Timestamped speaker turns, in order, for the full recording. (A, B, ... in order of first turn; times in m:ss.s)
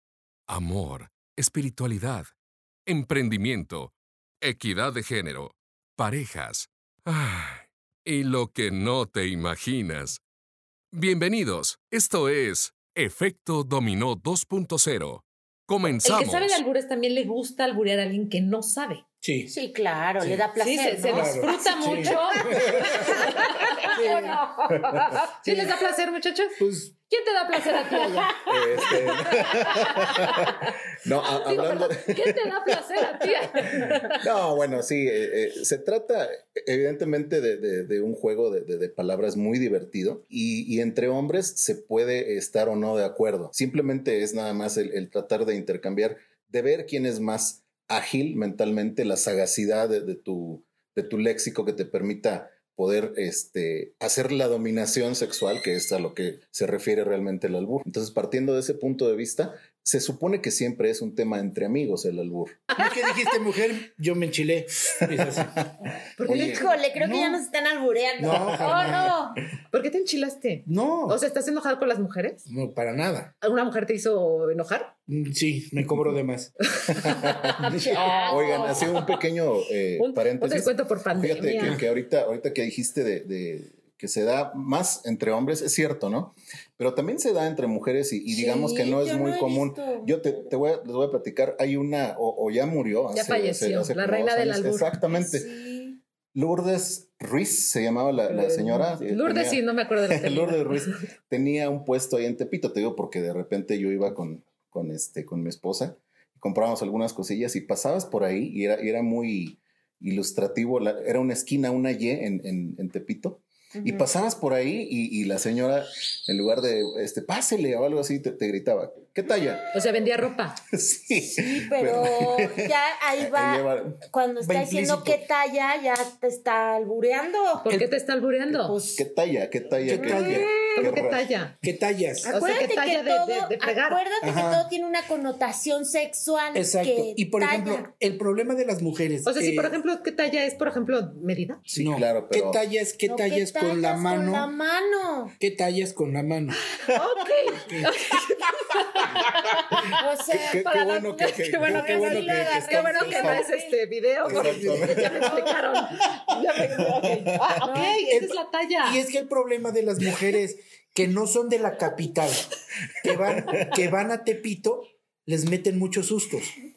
0:00.5-0:02.3 A
0:02.8-0:10.2 A
0:10.9-0:16.6 A
0:16.0-0:19.0 B
0:19.2-0:19.5 C
0:19.5-0:24.4 D
0:20.2-0:20.4 C
0:20.6-0:30.7 B
0:21.1-0:23.0 C
0:23.8-0:24.4 C
0:26.6-0:26.9 C
0:27.9-0:28.2 D
0:28.5-0:32.9 E
0:31.2-0:34.2 B
0:33.6-1:02.6 E
1:02.8-1:05.7 C
1:06.2-1:06.7 B
1:06.3-1:06.6 E
1:06.3-1:07.4 C
1:06.3-1:09.4 D
1:08.2-1:09.2 C
1:09.7-1:12.4 B
1:10.6-1:11.2 C
1:12.4-1:13.3 C
1:13.4-1:14.9 B
1:15.1-1:16.5 C
1:16.8-1:19.1 B
1:17.0-1:35.5 E
1:17.8-1:18.9 D
1:20.0-1:21.8 B
1:28.3-1:30.4 D
1:33.1-1:35.0 B
1:35.1-1:36.0 D
1:36.3-1:59.7 E
1:38.3-1:40.9 B
1:53.8-1:54.0 D
1:59.7-2:00.6 B
2:00.7-2:02.5 E
2:01.2-2:07.7 D
2:03.2-2:04.0 E
2:04.4-2:05.2 C
2:07.6-2:08.8 B
2:08.5-2:11.3 E
2:08.7-2:09.0 D
2:09.8-2:10.5 C
2:09.9-2:10.8 D
2:10.3-2:11.6 B
2:11.6-2:12.3 C
2:12.2-2:17.9 D
2:12.3-2:14.0 B
2:14.2-2:14.7 C
2:16.5-2:19.8 C
2:19.2-2:21.6 B
2:21.7-2:22.6 E
2:21.8-2:24.5 C
2:23.0-2:25.3 D
2:25.4-2:26.6 C
2:26.9-2:39.0 B
2:27.5-2:27.9 C
2:30.0-2:30.7 D
2:30.3-2:33.4 E
2:31.6-2:33.7 D
2:34.2-2:35.6 E
2:34.4-2:34.9 C
2:36.6-2:37.2 E
2:37.7-2:42.5 C
2:43.0-2:46.5 C